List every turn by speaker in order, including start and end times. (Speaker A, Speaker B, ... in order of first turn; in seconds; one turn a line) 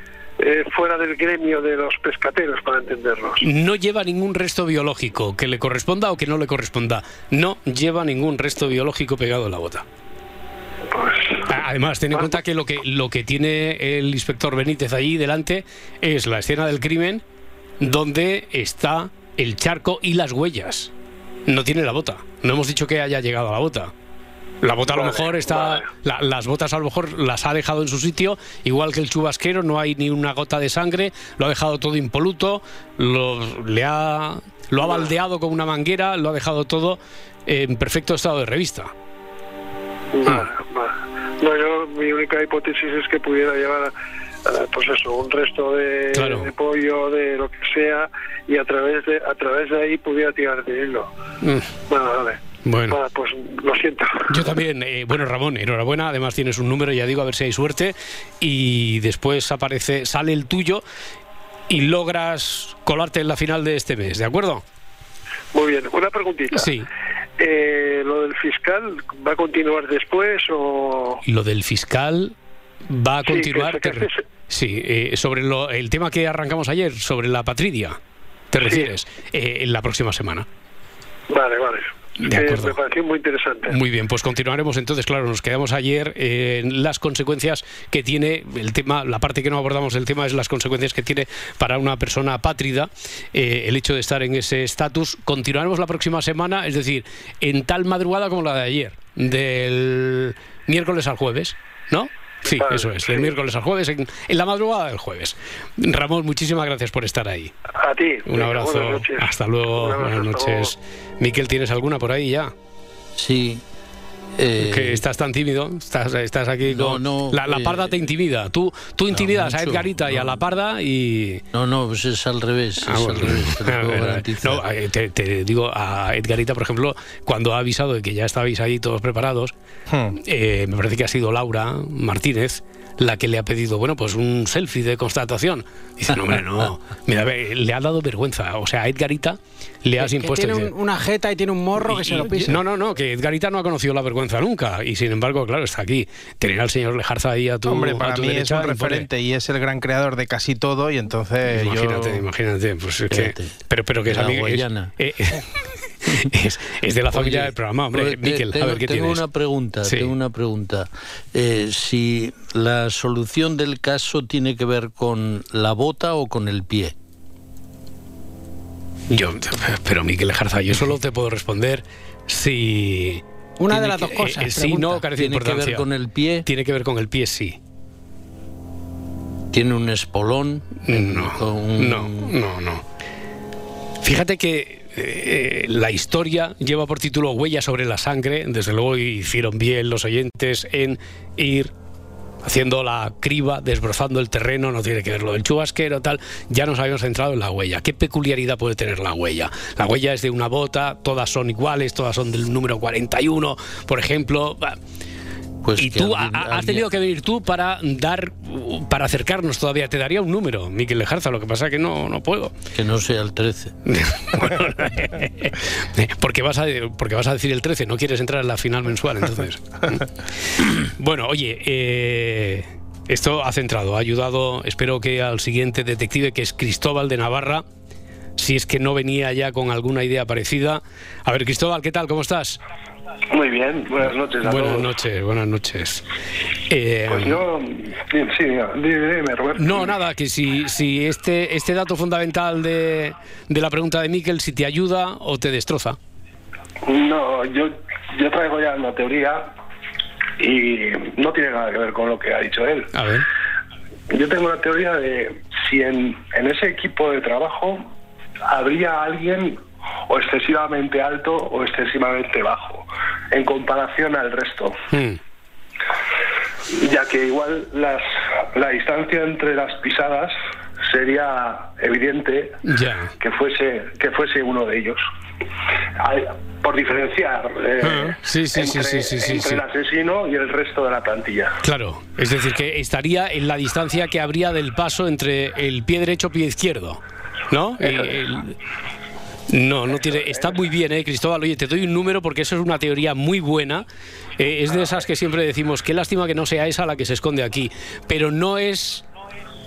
Speaker A: 0.4-3.4
Speaker B: 3.4-9.8
Speaker A: 10.9-11.5
Speaker B: 11.5-17.2
Speaker B: 17.8-20.9
Speaker B: 21.5-23.9
Speaker B: 24.6-38.9
Speaker A: 24.9-25.8
Speaker A: 34.8-35.1
Speaker A: 40.1-43.9
Speaker A: 44.5-51.1
Speaker B: 46.1-46.5
Speaker B: 51.4-51.7
Speaker A: 51.9-54.5
Speaker B: 52.6-53.0
Speaker B: 54.3-60.8
Speaker B: 61.7-64.6
Speaker A: 65.5-66.7
Speaker B: 66.5-66.9
Speaker A: 67.4-71.2
Speaker B: 71.2-72.3
Speaker B: 72.9-78.0
Speaker A: 73.2-74.2
Speaker B: 78.5-80.5
Speaker A: 78.6-78.9
Speaker A: 81.3-83.8
Speaker B: 82.2-82.8
Speaker B: 83.7-107.5
Speaker A: 102.5-103.3
Speaker A: 107.8-110.7
Speaker B: 108.3-112.5
Speaker C: 113.2-113.6
Speaker C: 114.4-115.0
Speaker B: 114.6-121.4
Speaker C: 116.7-118.0
Speaker C: 119.1-120.4
Speaker C: 121.5-124.6
Speaker B: 122.8-129.5
Speaker D: 129.9-130.2
Speaker B: 130.3-140.7
Speaker C: 136.1-136.7
Speaker E: 140.0-142.6
Speaker B: 141.8-149.1
Speaker D: 147.7-152.2
Speaker B: 151.5-155.4
Speaker C: 153.1-154.9
Speaker C: 156.0-156.3
Speaker B: 156.3-159.2
Speaker C: 157.1-166.9
Speaker B: 159.8-160.1
Speaker B: 169.1-175.8
Speaker E: 173.6-175.0
Speaker C: 175.1-176.4
Speaker B: 176.4-177.6
Speaker C: 179.5-182.3
Speaker B: 180.8-182.8
Speaker B: 184.0-191.7
Speaker B: 192.4-204.8
Speaker C: 205.6-206.9
Speaker B: 205.8-212.5
Speaker C: 212.7-213.7
Speaker B: 213.9-220.0
Speaker B: 220.6-227.6
Speaker B: 228.4-232.6
Speaker F: 233.3-234.9
Speaker B: 234.4-236.0
Speaker B: 236.7-237.4
Speaker F: 237.1-239.9
Speaker B: 239.6-246.0
Speaker F: 246.8-249.5
Speaker F: 250.4-252.9
Speaker B: 252.9-253.2
Speaker F: 254.1-257.8
Speaker F: 258.5-264.8
Speaker B: 264.9-265.2
Speaker F: 266.7-270.3
Speaker F: 270.9-272.6
Speaker B: 272.6-273.1
Speaker F: 273.2-275.0
Speaker F: 276.0-281.6
Speaker B: 277.8-279.6
Speaker B: 281.6-288.6
Speaker B: 289.5-293.9
Speaker B: 294.4-299.0